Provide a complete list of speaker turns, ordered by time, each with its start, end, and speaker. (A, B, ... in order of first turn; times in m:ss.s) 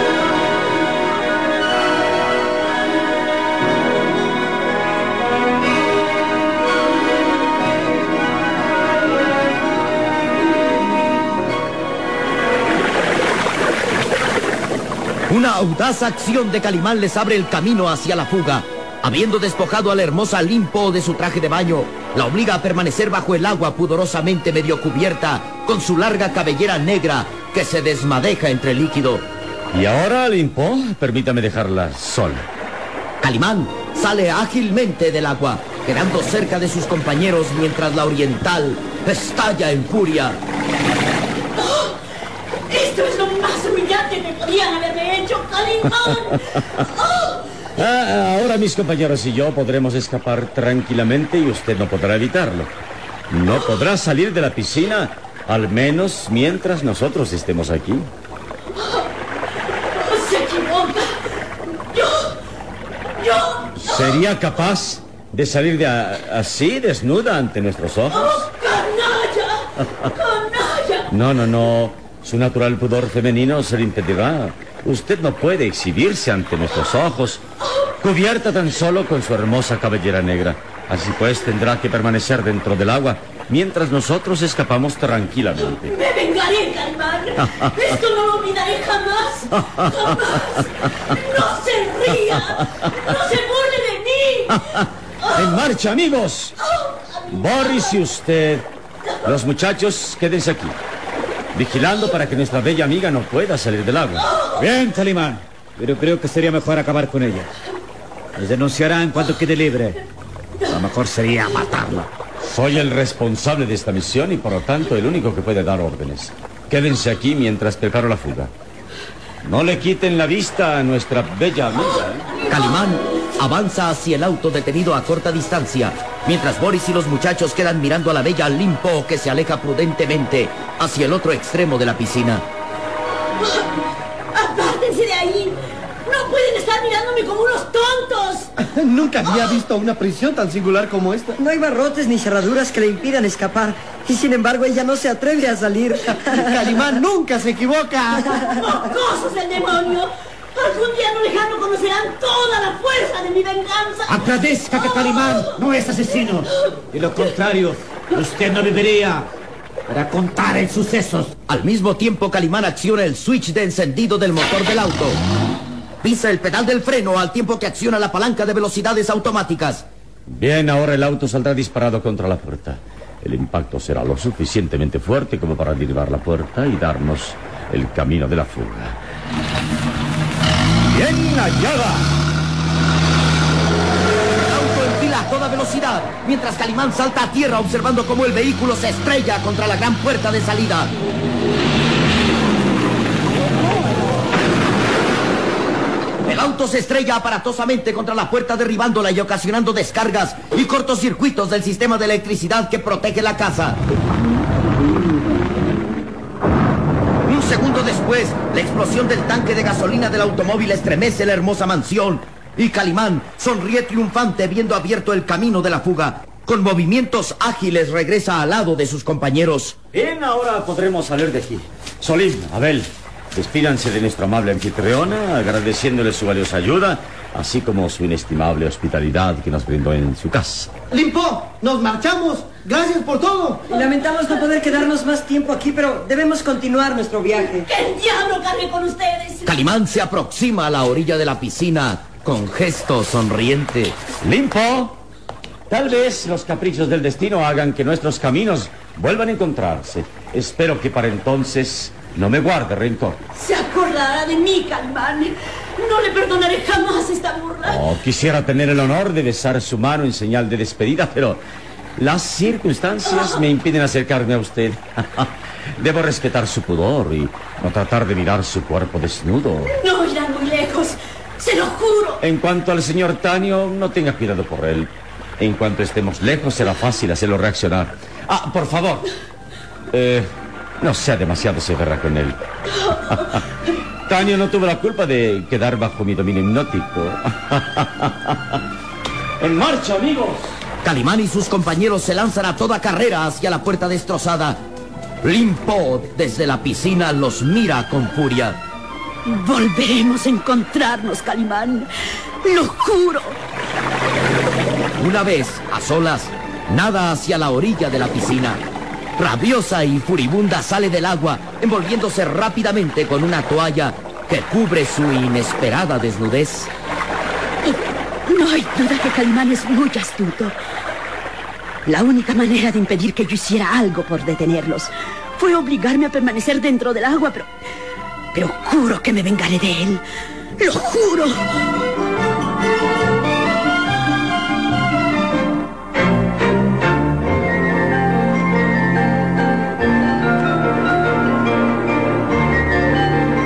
0:15.3-0:29.3 A
0:29.7-0:32.4 B
0:33.2-0:40.4 A
0:41.6-0:42.0 C
0:42.7-0:47.5 C
0:47.8-0:52.7 B
0:53.3-0:58.1 B
0:59.9-1:01.1 C
1:01.9-1:02.3 C
1:03.2-1:04.2 C
1:03.8-1:08.5 B
1:08.1-1:11.1 C
1:11.1-1:17.4 B
1:18.0-1:25.9 B
1:25.8-1:35.4 C
1:29.6-1:30.4 B
1:34.6-1:36.6 B
1:36.7-1:37.9 C
1:37.3-1:38.7 B
1:39.2-1:40.8 B
1:41.5-1:44.3 B
1:44.6-1:47.5 D
1:48.4-1:50.0 D
1:50.6-1:52.1 D
1:52.4-1:58.5 B
1:59.4-2:02.3 B
2:02.4-2:12.4 A
2:13.4-2:13.7 C
2:14.3-2:18.5 C
2:18.6-2:21.4 E
2:21.4-2:27.0 F
2:26.1-2:28.4 E
2:28.2-2:34.3 C
2:34.1-2:39.3 D
2:34.9-2:35.5 C
2:39.9-2:41.3 D
2:41.5-2:45.2 A
2:46.0-2:49.8 A
2:50.3-2:59.0 B
3:00.9-3:02.1 D
3:04.4-3:10.9 A
3:16.2-3:23.8 A
3:27.2-3:39.8 A
3:39.9-3:50.7 B
3:50.9-3:53.7 E
3:53.7-3:57.7 F
3:53.7-3:54.6 C
3:57.6-3:59.6 C
3:59.4-4:04.0 A
4:04.2-4:05.0 B
4:05.7-4:13.2 B
4:13.3-4:17.8 C
4:17.6-4:21.4 B
4:22.0-4:29.8 B
4:23.1-4:23.4 C
4:29.7-4:32.2 C
4:32.2-4:39.1 B
4:39.9-4:42.4 B
4:42.8-4:43.3 C
4:43.1-4:43.4 B
4:44.1-4:48.6 B
4:49.4-4:50.6 B
4:50.8-4:54.6 A
4:55.2-4:58.6 A
4:59.2-5:01.9 C
5:02.4-5:03.4 C
5:05.0-5:08.6 A
5:09.2-5:16.7 A
5:17.6-5:20.5 C
5:21.8-5:27.5 C
5:28.3-5:30.0 C
5:30.6-5:31.4 C